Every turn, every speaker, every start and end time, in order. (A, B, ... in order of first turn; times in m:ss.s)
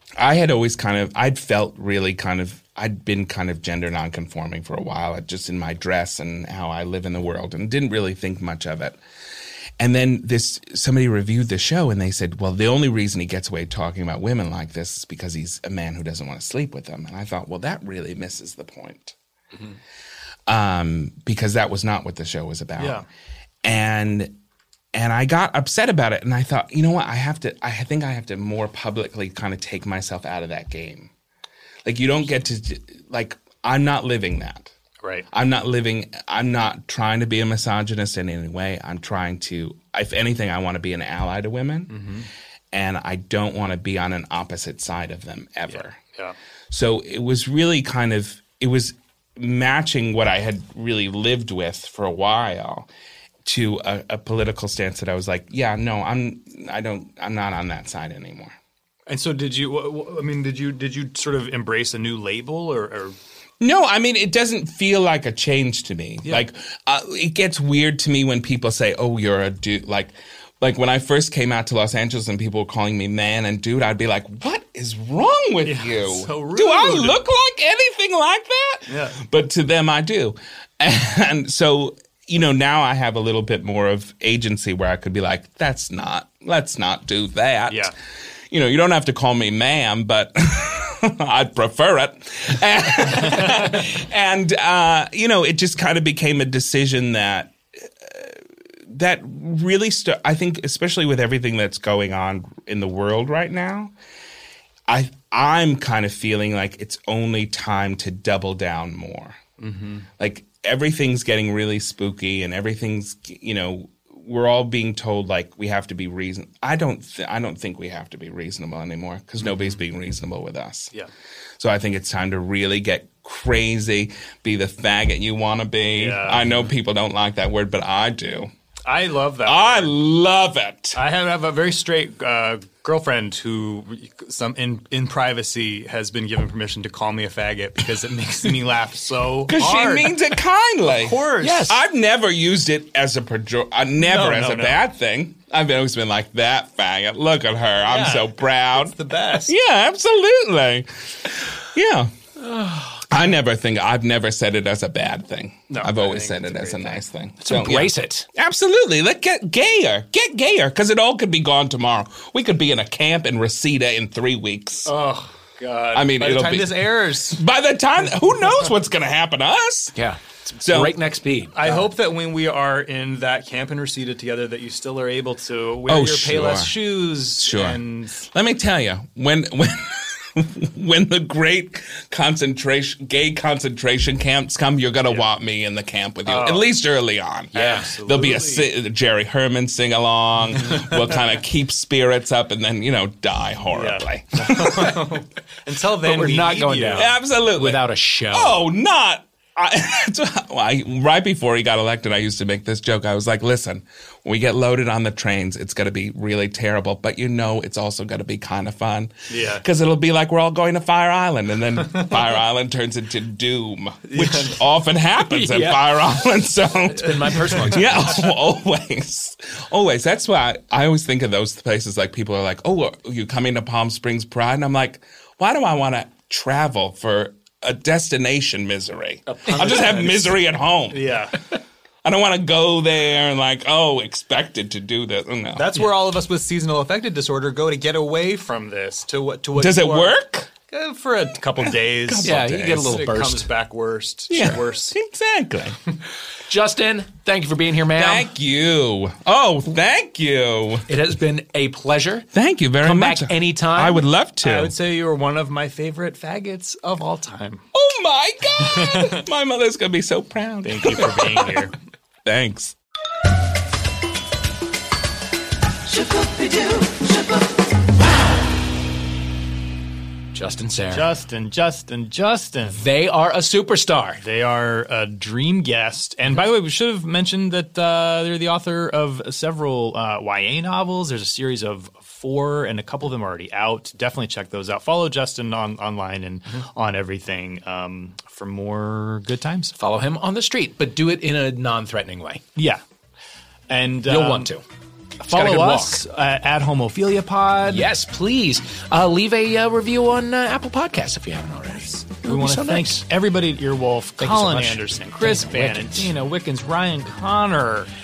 0:00.2-0:09.0 A
0:09.8-0:19.1 A
0:20.5-0:23.0 A
0:22.8-0:23.0 B
0:23.6-0:24.4 A
0:24.9-0:31.1 A
0:31.8-0:34.7 A
0:35.3-0:42.1 A
0:41.9-0:42.3 B
0:42.7-0:46.0 A
0:45.7-0:46.3 B
0:46.7-0:52.9 A
0:53.4-0:58.5 A
0:59.1-1:03.2 B
1:03.6-1:27.9 A
1:15.6-1:17.2 B
1:18.9-1:19.2 B
1:28.5-1:37.5 A
1:38.0-1:38.3 A
1:38.9-1:43.9 A
1:44.9-1:49.4 A
1:49.6-1:50.0 B
1:50.2-2:00.9 A
1:59.4-1:59.8 B
2:01.6-2:08.5 A
2:05.9-2:06.7 B
2:08.8-2:09.9 B
2:09.4-2:11.0 A
2:10.9-2:20.2 B
2:19.5-2:32.1 A
2:20.8-2:21.7 B
2:21.4-2:21.8 C
2:24.0-2:24.8 B
2:27.8-2:29.5 B
2:32.4-2:33.0 C
2:33.1-2:44.9 A
2:35.7-2:37.0 B
2:37.4-2:38.3 C
2:44.8-2:47.4 B
2:45.9-2:50.0 A
2:49.9-2:51.9 C
2:50.6-2:51.0 A
2:51.5-2:58.3 B
2:55.8-3:15.0 A
3:06.2-3:06.7 B
3:07.5-3:08.7 B
3:07.5-3:07.9 C
3:13.7-3:17.1 B
3:16.0-3:18.6 C
3:16.9-3:51.2 A
3:29.3-3:29.6 B
3:34.1-3:34.6 B
3:35.2-3:38.3 C
3:49.3-3:51.4 B
3:52.0-3:55.8 A
3:55.6-4:00.2 B
3:59.6-4:00.5 A
4:00.7-4:05.0 B
4:02.0-4:03.0 A
4:02.2-4:03.5 C
4:04.3-4:05.8 A
4:06.5-4:08.3 C
4:07.9-4:10.9 A
4:10.9-4:12.3 C
4:12.3-4:14.7 A
4:12.8-4:14.0 C
4:14.4-4:17.6 B
4:17.7-4:21.6 A
4:18.6-4:19.2 B
4:20.6-4:21.7 B
4:22.2-4:22.7 A
4:25.9-4:27.1 C
4:30.3-4:31.1 C
4:30.9-4:32.8 B
4:32.7-4:34.2 C
4:34.2-4:49.7 B
4:49.7-4:52.4 C
4:52.6-4:52.8 B
4:53.7-4:54.5 B
4:54.0-4:54.6 C
4:55.2-4:56.0 C
4:55.2-4:57.9 B
4:57.6-5:03.0 C
5:02.1-5:07.9 B
5:04.2-5:06.1 C